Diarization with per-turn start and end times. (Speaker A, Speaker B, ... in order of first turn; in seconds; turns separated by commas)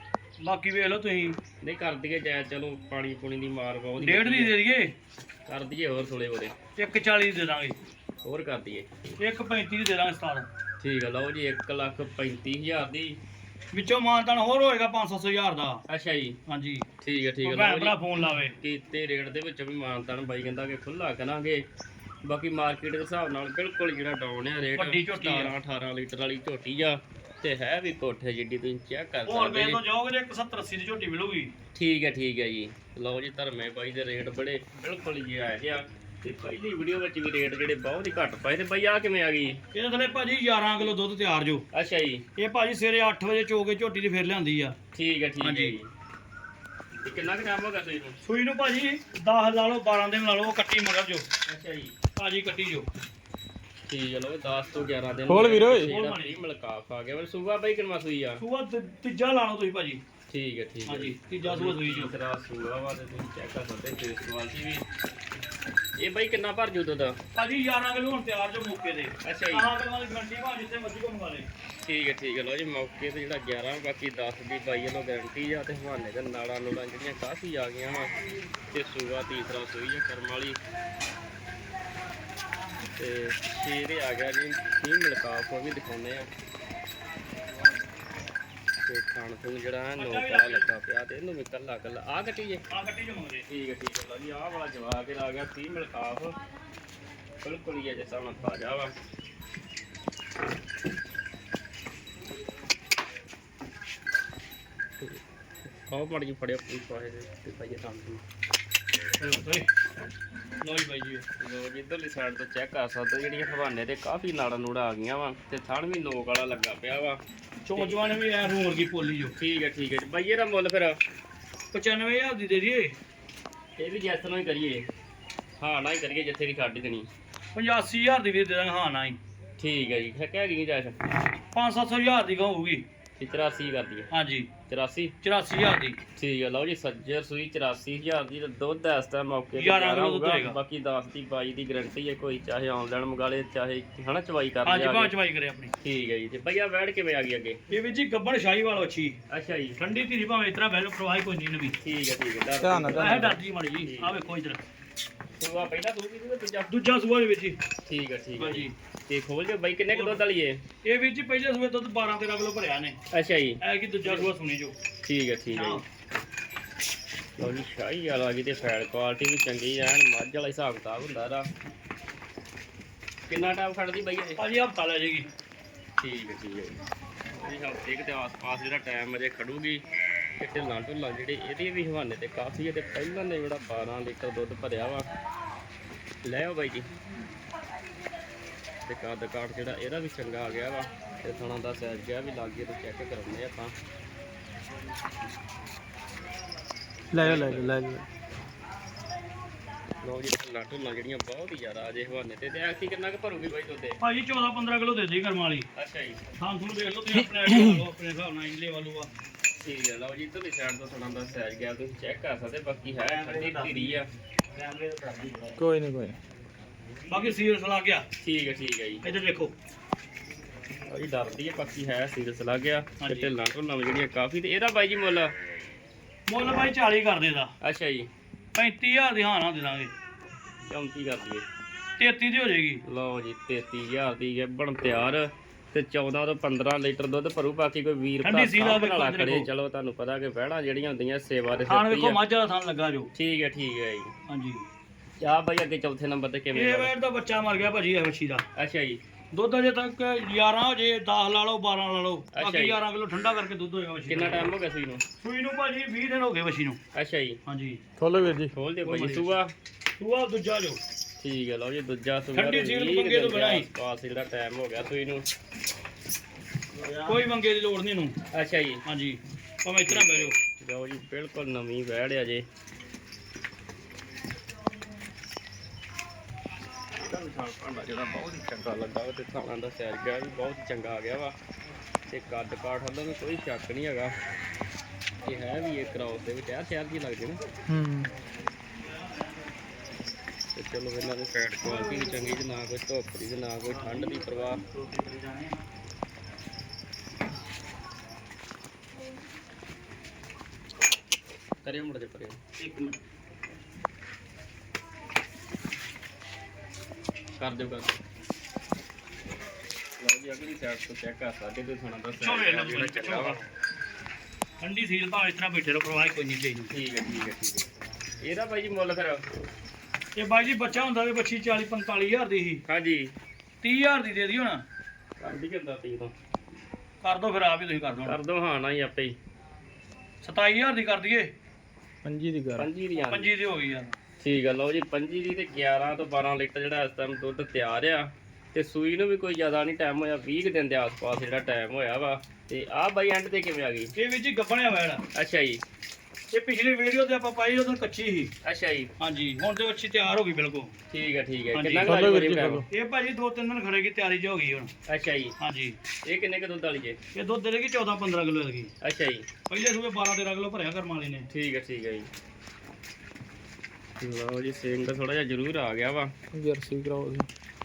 Speaker A: 0.4-1.4, Speaker B: 1.6-4.5, Speaker A: 4.0-4.9, Speaker B: 5.5-6.5, Speaker A: 6.8-7.8, Speaker B: 8.2-8.9, Speaker A: 9.2-10.5, Speaker B: 10.8-13.2, Speaker A: 13.7-15.8, Speaker B: 15.9-16.4, Speaker A: 16.5-16.9, Speaker B: 17.0-17.9, Speaker A: 17.4-18.5, Speaker B: 18.6-21.6, Speaker B: 22.2-29.8, Speaker A: 24.7-25.5, Speaker A: 29.2-31.5, Speaker B: 31.7-39.6, Speaker A: 39.7-41.6, Speaker B: 41.7-42.2, Speaker A: 42.4-44.8, Speaker B: 44.9-45.9, Speaker A: 45.4-45.7, Speaker B: 47.0-48.2, Speaker A: 48.2-51.2, Speaker B: 51.5-52.0, Speaker A: 52.1-52.9, Speaker B: 53.9-58.4, Speaker C: 55.3-55.9, Speaker A: 55.5-56.3, Speaker A: 58.4-60.0, Speaker B: 60.3-64.8, Speaker A: 60.9-62.1, Speaker B: 66.0-67.2, Speaker A: 67.3-71.5, Speaker B: 69.2-69.7, Speaker B: 71.8-78.1, Speaker B: 78.7-80.6, Speaker B: 83.0-86.3, Speaker B: 88.8-92.7, Speaker A: 90.0-90.7, Speaker A: 92.7-93.5, Speaker B: 93.5-96.4, Speaker B: 97.4-98.9, Speaker B: 105.0-108.2, Speaker A: 109.2-109.7, Speaker A: 110.6-111.2, Speaker B: 111.4-117.2, Speaker A: 117.7-119.3, Speaker B: 117.8-118.1, Speaker B: 119.3-121.0, Speaker A: 121.7-122.9, Speaker B: 123.8-124.8, Speaker B: 125.6-127.1, Speaker A: 127.5-129.2, Speaker B: 129.6-131.0, Speaker A: 131.5-132.8, Speaker B: 133.2-134.1, Speaker A: 134.1-134.5, Speaker B: 134.7-135.1, Speaker A: 135.2-136.0, Speaker B: 136.2-145.1, Speaker A: 139.6-140.6, Speaker A: 144.6-145.7, Speaker B: 145.8-147.6, Speaker A: 147.7-149.2, Speaker B: 149.3-149.8, Speaker A: 149.8-151.8, Speaker B: 151.8-154.2, Speaker C: 152.6-153.4, Speaker A: 152.9-154.6, Speaker B: 155.4-156.7, Speaker A: 156.7-157.6, Speaker B: 157.8-160.6, Speaker A: 158.4-158.7, Speaker A: 159.9-160.2, Speaker A: 160.8-163.0, Speaker B: 163.1-164.3, Speaker A: 163.6-164.8, Speaker B: 165.1-165.8, Speaker A: 165.5-165.8, Speaker B: 167.4-171.5, Speaker B: 173.3-174.4, Speaker A: 174.4-175.3, Speaker B: 176.0-176.8, Speaker B: 177.3-179.8, Speaker B: 180.4-185.1, Speaker B: 186.2-186.9, Speaker B: 188.8-193.7, Speaker A: 197.1-198.0, Speaker B: 197.2-197.8, Speaker B: 200.0-204.0, Speaker A: 204.0-205.7, Speaker B: 205.7-206.2, Speaker A: 206.4-209.1, Speaker C: 207.4-207.8, Speaker B: 209.6-214.1, Speaker A: 213.0-214.0, Speaker A: 214.5-215.6, Speaker C: 215.6-216.2, Speaker A: 217.1-218.1, Speaker B: 218.2-219.0, Speaker A: 219.0-219.5, Speaker B: 220.9-225.3, Speaker A: 223.0-223.3, Speaker A: 226.3-227.5, Speaker B: 227.6-228.1, Speaker A: 228.6-229.9, Speaker B: 230.7-231.4, Speaker A: 232.0-232.8, Speaker B: 232.8-242.2, Speaker A: 238.2-239.5, Speaker A: 241.7-243.1, Speaker B: 243.1-244.1, Speaker A: 244.3-244.7, Speaker B: 245.2-246.9, Speaker A: 246.5-248.4, Speaker B: 248.6-249.0, Speaker A: 249.3-254.5, Speaker B: 252.3-252.8, Speaker B: 254.1-255.0, Speaker A: 255.2-256.8, Speaker B: 256.9-257.4, Speaker A: 257.4-257.8, Speaker C: 258.0-258.5, Speaker B: 258.5-259.5, Speaker A: 258.8-259.4, Speaker A: 260.0-260.8, Speaker B: 261.2-265.3, Speaker A: 262.3-263.7, Speaker A: 267.0-268.1, Speaker B: 268.3-268.8, Speaker A: 268.8-270.4, Speaker B: 269.9-272.4, Speaker B: 276.9-281.4, Speaker B: 282.1-284.1, Speaker B: 285.2-287.4, Speaker C: 287.7-288.1, Speaker A: 288.9-289.5, Speaker B: 290.5-294.6, Speaker A: 293.6-295.6, Speaker B: 301.6-302.4, Speaker A: 302.6-303.0, Speaker B: 307.4-308.0, Speaker B: 310.0-313.4, Speaker A: 312.2-313.5, Speaker A: 314.6-316.7, Speaker B: 316.7-317.7, Speaker B: 318.2-319.2, Speaker A: 320.1-322.6, Speaker B: 322.6-323.1, Speaker A: 323.6-324.6, Speaker B: 325.2-326.1, Speaker A: 327.0-328.2, Speaker B: 328.0-329.2, Speaker A: 330.2-331.3, Speaker C: 332.0-332.7, Speaker B: 332.6-333.3, Speaker A: 333.0-333.9, Speaker B: 334.2-343.9, Speaker A: 343.9-345.0, Speaker B: 345.1-345.6, Speaker A: 346.3-348.3, Speaker B: 348.4-348.9, Speaker A: 349.0-350.7, Speaker B: 350.9-352.6, Speaker A: 351.5-352.1, Speaker C: 351.8-352.6, Speaker A: 352.7-354.7, Speaker B: 354.9-355.3, Speaker A: 355.4-355.8, Speaker B: 356.0-357.0, Speaker A: 357.1-358.7, Speaker B: 358.8-359.3, Speaker A: 359.5-361.3, Speaker B: 361.3-362.1, Speaker B: 364.0-366.1, Speaker C: 366.3-367.3